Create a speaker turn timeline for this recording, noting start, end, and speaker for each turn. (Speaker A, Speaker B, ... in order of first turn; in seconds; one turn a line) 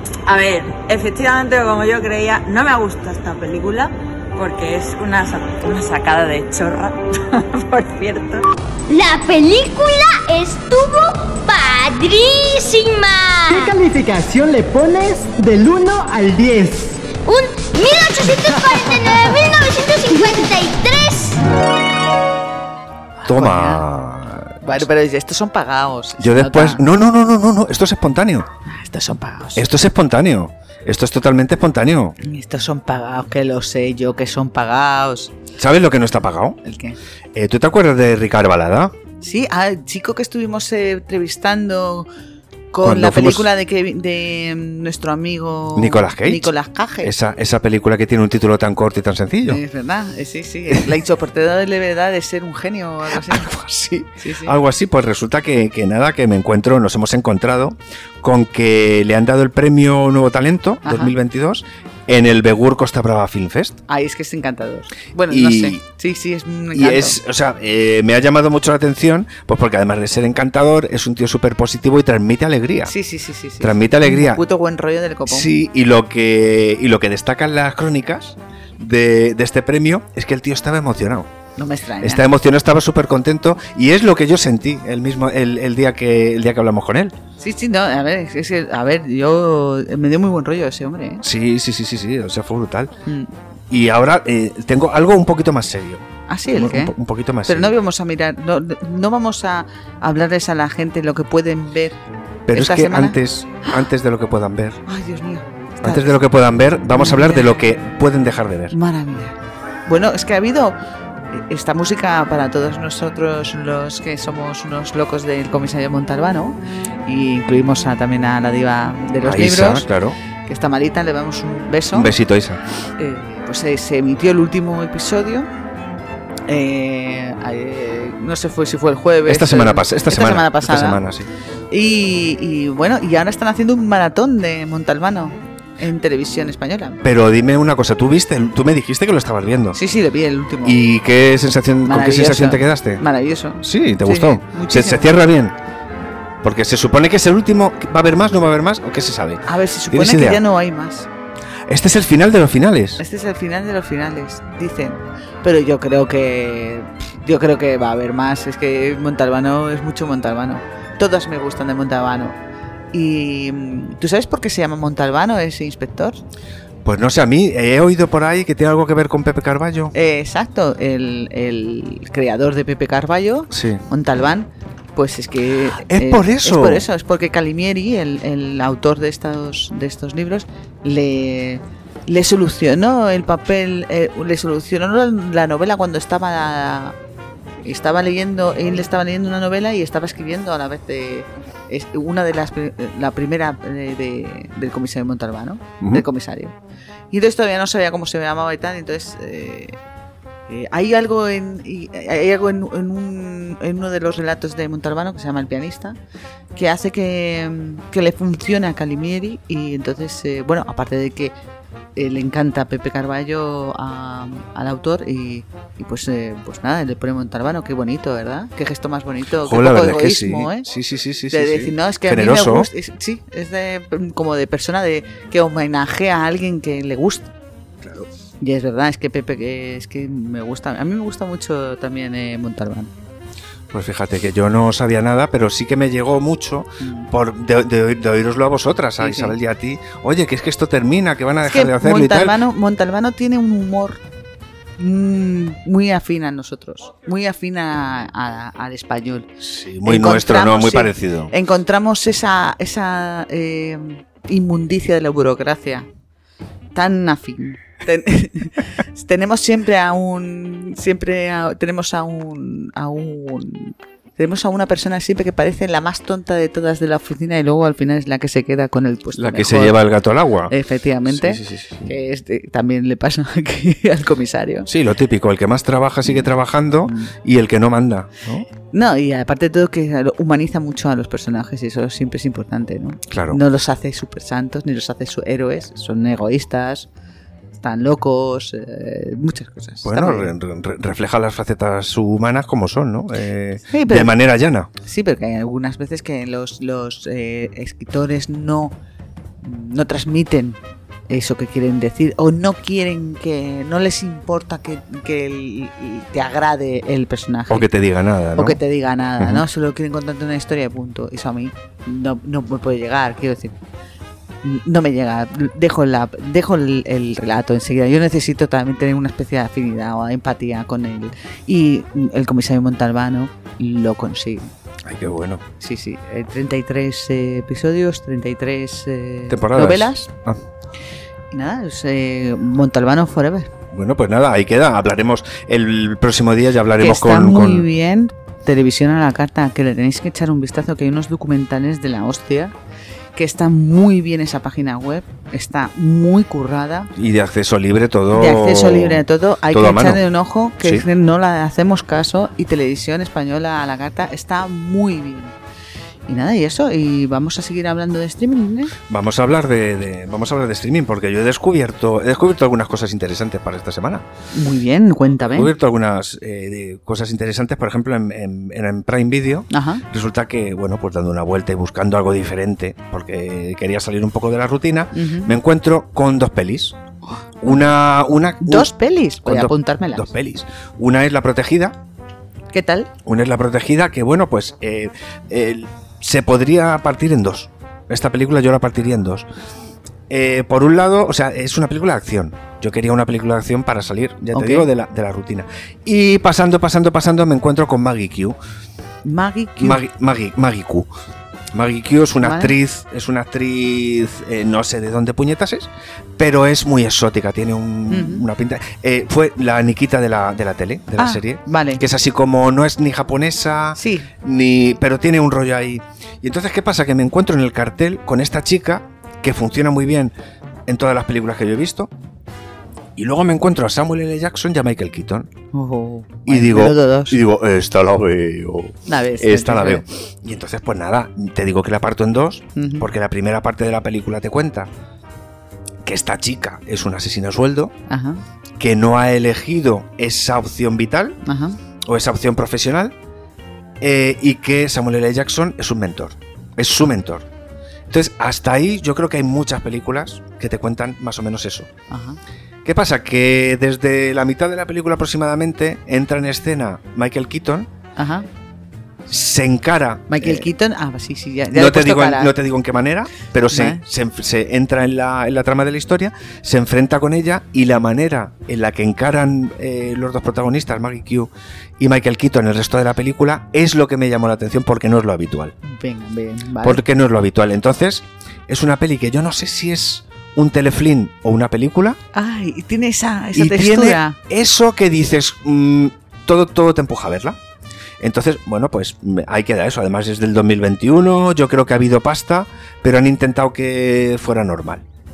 Speaker A: 0.2-8.4
Speaker B: 8.9-13.7
Speaker C: 13.5-17.0
Speaker B: 17.2-21.4
Speaker D: 23.2-23.8
Speaker E: 23.2-24.7
Speaker D: 24.6-26.9
Speaker E: 26.2-28.5
Speaker D: 28.7-29.7
Speaker E: 29.6-32.1
Speaker D: 32.2-35.3
Speaker E: 35.6-36.6
Speaker D: 36.6-37.0
Speaker E: 37.3-38.9
Speaker D: 39.2-42.1
Speaker D: 42.7-47.1
Speaker E: 42.8-43.5
Speaker E: 45.7-49.6
Speaker D: 49.5-53.5
Speaker E: 53.2-63.8
Speaker D: 54.2-54.5
Speaker D: 60.8-61.1
Speaker D: 63.9-67.2
Speaker E: 65.3-65.8
Speaker E: 66.7-72.9
Speaker D: 72.9-75.6
Speaker E: 73.6-74.4
Speaker E: 75.3-81.3
Speaker D: 81.6-82.2
Speaker E: 82.0-87.1
Speaker D: 87.4-91.2
Speaker E: 91.2-92.9
Speaker D: 93.0-93.3
Speaker E: 93.7-97.7
Speaker D: 96.3-96.9
Speaker D: 97.5-102.0
Speaker E: 102.5-104.8
Speaker D: 102.5-103.2
Speaker D: 104.8-106.2
Speaker E: 105.8-108.7
Speaker D: 106.9-107.6
Speaker D: 108.7-110.8
Speaker D: 111.3-119.9
Speaker E: 119.2-120.2
Speaker D: 120.5-122.1
Speaker E: 121.9-122.6
Speaker D: 123.0-125.5
Speaker D: 126.5-131.0
Speaker E: 129.2-131.3
Speaker D: 131.7-137.0
Speaker E: 137.0-139.8
Speaker D: 139.7-140.8
Speaker E: 140.6-143.0
Speaker D: 141.8-145.2
Speaker E: 143.6-145.5
Speaker E: 146.4-150.4
Speaker D: 149.4-151.1
Speaker E: 151.7-153.0
Speaker D: 153.0-162.4
Speaker D: 162.9-166.2
Speaker E: 166.8-169.9
Speaker D: 169.9-186.9
Speaker E: 173.5-173.8
Speaker E: 175.8-176.8
Speaker D: 187.6-196.5
Speaker D: 197.1-199.8
Speaker D: 200.5-206.0
Speaker D: 206.5-211.3
Speaker D: 211.9-220.6
Speaker E: 219.3-222.7
Speaker D: 221.3-227.3
Speaker D: 228.4-232.9
Speaker E: 233.7-242.4
Speaker D: 236.8-237.1
Speaker D: 239.0-239.3
Speaker D: 241.4-244.0
Speaker D: 244.8-249.3
Speaker E: 249.4-251.3
Speaker D: 249.8-255.9
Speaker D: 256.7-269.8
Speaker E: 269.1-270.5
Speaker D: 270.5-274.7
Speaker E: 271.1-271.9
Speaker E: 274.6-278.5
Speaker D: 276.8-277.1
Speaker D: 278.7-286.9
Speaker E: 283.1-283.4
Speaker D: 287.6-290.3
Speaker E: 289.8-294.7
Speaker D: 293.7-294.1
Speaker D: 294.8-298.7
Speaker D: 299.4-307.7
Speaker E: 307.5-308.6
Speaker D: 308.4-313.5
Speaker E: 309.2-309.4
Speaker D: 314.4-324.5
Speaker E: 324.8-325.4
Speaker D: 325.6-330.1
Speaker E: 329.3-330.4
Speaker D: 331.3-333.5
Speaker E: 333.7-337.7
Speaker D: 336.8-342.5
Speaker D: 343.1-346.9
Speaker E: 346.9-350.0
Speaker D: 348.1-355.3
Speaker D: 356.1-358.7
Speaker E: 358.9-364.0
Speaker D: 364.3-365.5
Speaker E: 365.3-376.8
Speaker D: 369.5-369.8
Speaker D: 374.9-375.3
Speaker E: 377.4-378.7
Speaker D: 378.4-380.1
Speaker E: 379.2-381.8
Speaker D: 382.5-382.9
Speaker E: 383.0-389.3
Speaker E: 390.1-398.4
Speaker D: 394.3-394.7
Speaker D: 399.0-399.8
Speaker E: 399.6-400.9
Speaker E: 401.5-420.1
Speaker D: 402.2-402.6
Speaker D: 407.9-408.2
Speaker D: 411.0-411.8
Speaker D: 413.8-414.1
Speaker E: 420.7-421.9
Speaker E: 422.9-425.3
Speaker D: 425.5-427.2
Speaker E: 426.2-434.7
Speaker D: 428.9-429.8
Speaker D: 432.6-432.9
Speaker E: 435.8-437.7
Speaker D: 437.9-438.2
Speaker E: 438.6-441.2
Speaker D: 441.2-441.6
Speaker E: 441.8-442.9
Speaker E: 443.8-447.2
Speaker E: 447.9-451.7
Speaker D: 451.9-452.2
Speaker E: 452.6-457.7
Speaker D: 457.9-458.3
Speaker E: 459.1-460.5
Speaker D: 460.1-462.3
Speaker E: 461.5-475.5
Speaker D: 463.5-463.8
Speaker D: 475.6-476.8
Speaker E: 476.6-482.0
Speaker D: 482.1-484.2
Speaker E: 483.3-487.4
Speaker E: 488.0-494.8